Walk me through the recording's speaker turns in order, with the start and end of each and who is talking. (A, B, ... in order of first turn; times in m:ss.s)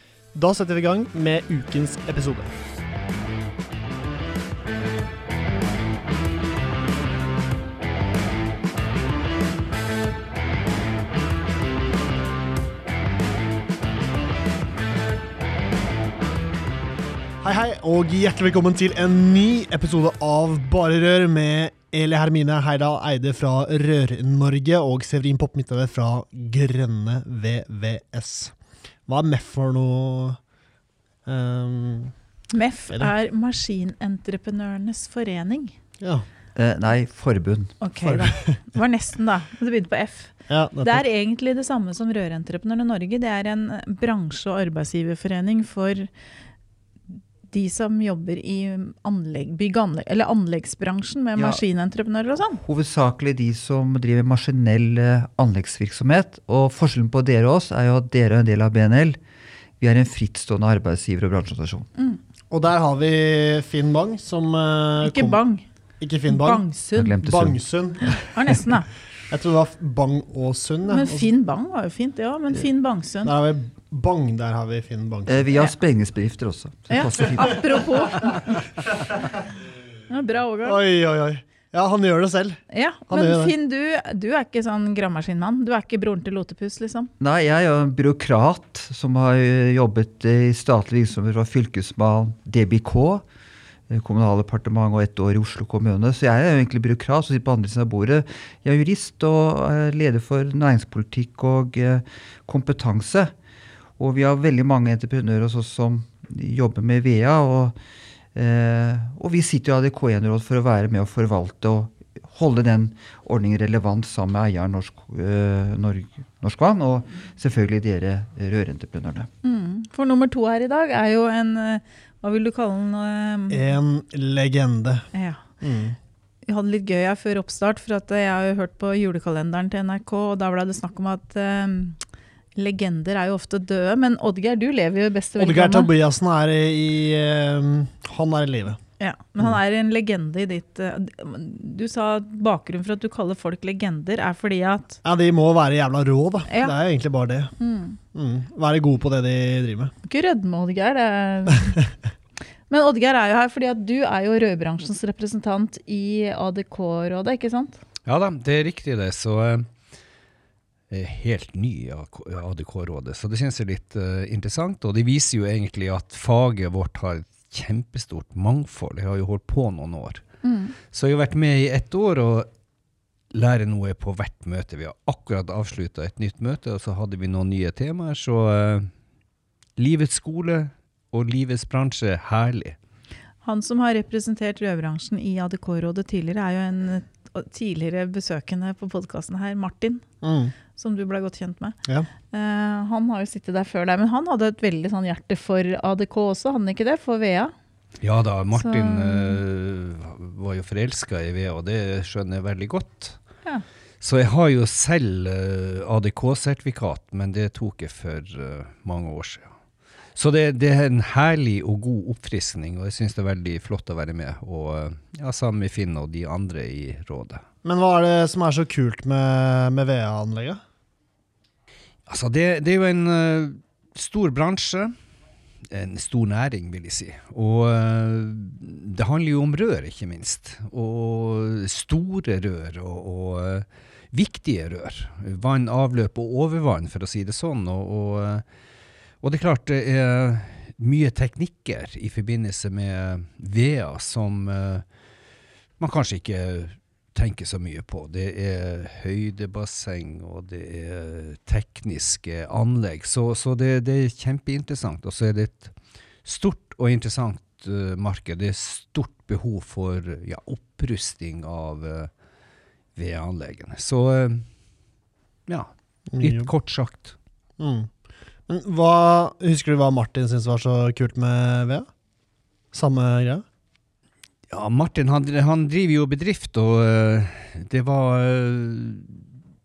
0:00.3-0:02.5 A
0:17.4-0:28.5 A
0:29.1-0:30.4 A
0:31.2-0:32.1 A
0:32.5-0:35.7 B
0:36.0-0:36.2 A
0:36.5-0:37.8 C
0:37.8-0:46.1 B
0:38.0-0:38.4 A
0:40.5-0:41.0 A
0:47.5-0:52.6 B
0:52.6-0:59.2 C
0:59.8-1:01.9 C
1:02.5-1:05.4 A
1:05.0-1:05.6 B
1:06.0-1:06.7 A
1:06.2-1:07.2 B
1:07.0-1:08.2 C
1:07.2-1:08.6 A
1:08.3-1:08.9 B
1:09.3-1:11.3 A
1:10.9-1:13.3 B
1:13.2-1:15.4 A
1:15.3-1:18.3 C
1:16.9-1:18.5 B
1:20.1-1:20.8 B
1:20.6-1:23.5 A
1:22.7-1:27.1 B
1:27.2-1:33.2 C
1:33.9-1:43.3 C
1:44.0-1:47.8 C
1:48.3-1:59.3 C
1:59.4-2:03.6 B
2:03.5-2:05.1 A
2:05.1-2:05.4 B
2:05.6-2:06.0 A
2:06.4-2:12.0 B
2:12.6-2:15.9 B
2:15.4-2:18.8 A
2:19.0-2:25.0 B
2:25.0-2:27.5 A
2:26.5-2:26.8 B
2:27.6-2:28.0 B
2:28.1-2:29.9 A
2:30.0-2:31.8 B
2:32.7-2:37.8 B
2:38.0-2:39.7 D
2:40.9-2:50.2 D
2:50.4-2:50.7 B
2:50.9-2:52.5 D
2:53.3-2:58.9 D
2:59.8-3:02.8 D
3:03.4-3:10.0 B
3:10.2-3:10.5 A
3:10.7-3:11.8 B
3:12.3-3:17.5 B
3:18.0-3:23.2 D
3:18.5-3:19.4 B
3:24.0-3:29.5 D
3:30.1-3:37.4 D
3:37.6-3:40.6 A
3:42.1-3:44.9 D
3:45.7-3:58.4 D
3:59.2-4:04.8 D
4:05.8-4:22.1 D
4:22.9-4:24.5 D
4:25.5-4:27.2 D
4:26.1-4:26.5 A
4:27.6-4:27.9 A
4:28.5-4:31.9 A
4:32.7-4:33.4 A
4:34.5-4:39.2 D